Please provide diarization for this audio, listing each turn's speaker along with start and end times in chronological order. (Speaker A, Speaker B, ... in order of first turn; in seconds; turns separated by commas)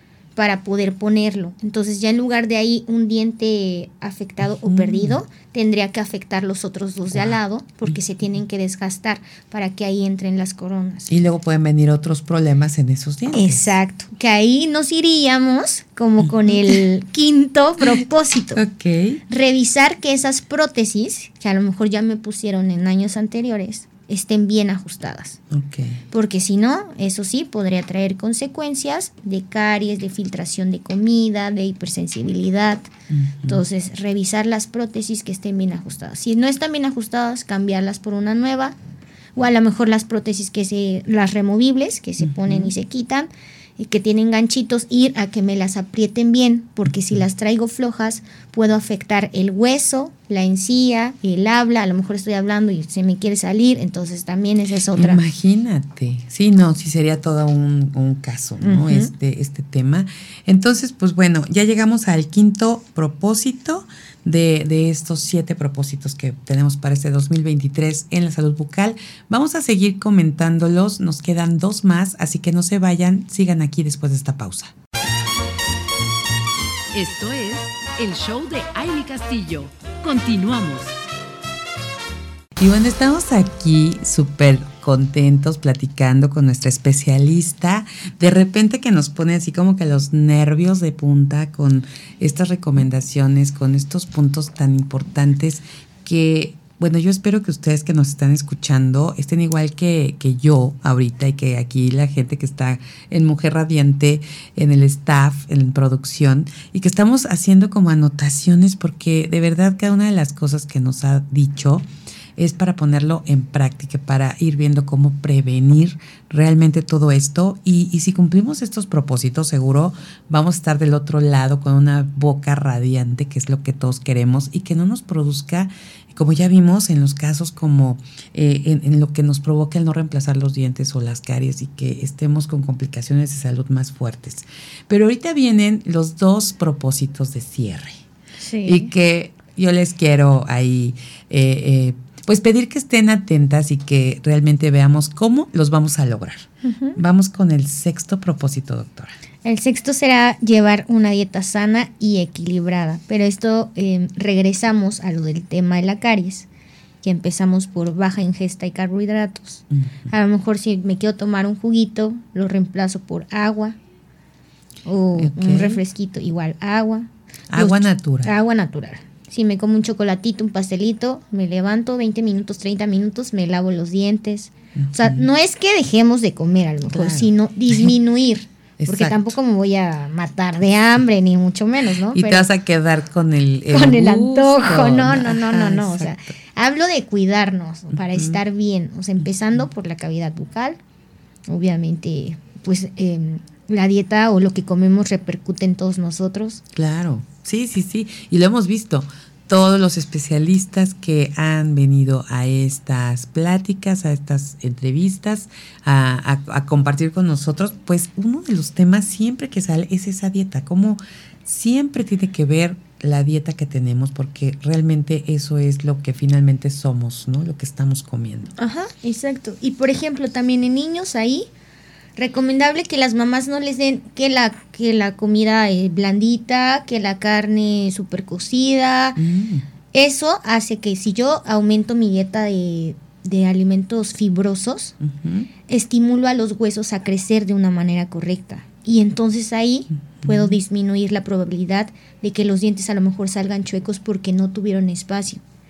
Speaker A: 0.3-11.1, Speaker B: 4.6-5.2, Speaker B: 11.1-13.6, Speaker A: 13.3-18.6, Speaker B: 18.5-19.2, Speaker A: 19.3-25.4, Speaker B: 25.5-26.0, Speaker A: 26.1-32.9, Speaker B: 33.1-33.6, Speaker A: 33.5-38.7, Speaker A: 39.4-55.2, Speaker B: 42.2-42.7, Speaker B: 55.0-74.7, Speaker A: 58.6-59.1, Speaker C: 76.9-81.0, Speaker B: 82.6-111.8, Speaker B: 112.4-138.0, Speaker A: 138.4-138.9, Speaker B: 138.6-149.1, Speaker A: 146.6-147.0, Speaker A: 149.4-156.5, Speaker A: 157.0-163.8, Speaker B: 159.7-160.1, Speaker A: 164.8-182.5, Speaker B: 165.2-165.8, Speaker B: 167.5-168.3, Speaker B: 174.8-175.2, Speaker B: 176.9-177.9, Speaker B: 178.8-179.3, Speaker B: 182.1-186.3, Speaker A: 183.7-190.8, Speaker B: 187.9-188.4, Speaker A: 191.5-196.6, Speaker B: 196.7-218.5, Speaker A: 218.6-221.5, Speaker A: 222.2-229.2, Speaker B: 229.2-229.7, Speaker A: 229.9-234.9, Speaker B: 235.0-235.5, Speaker A: 235.7-245.4, Speaker B: 240.2-240.6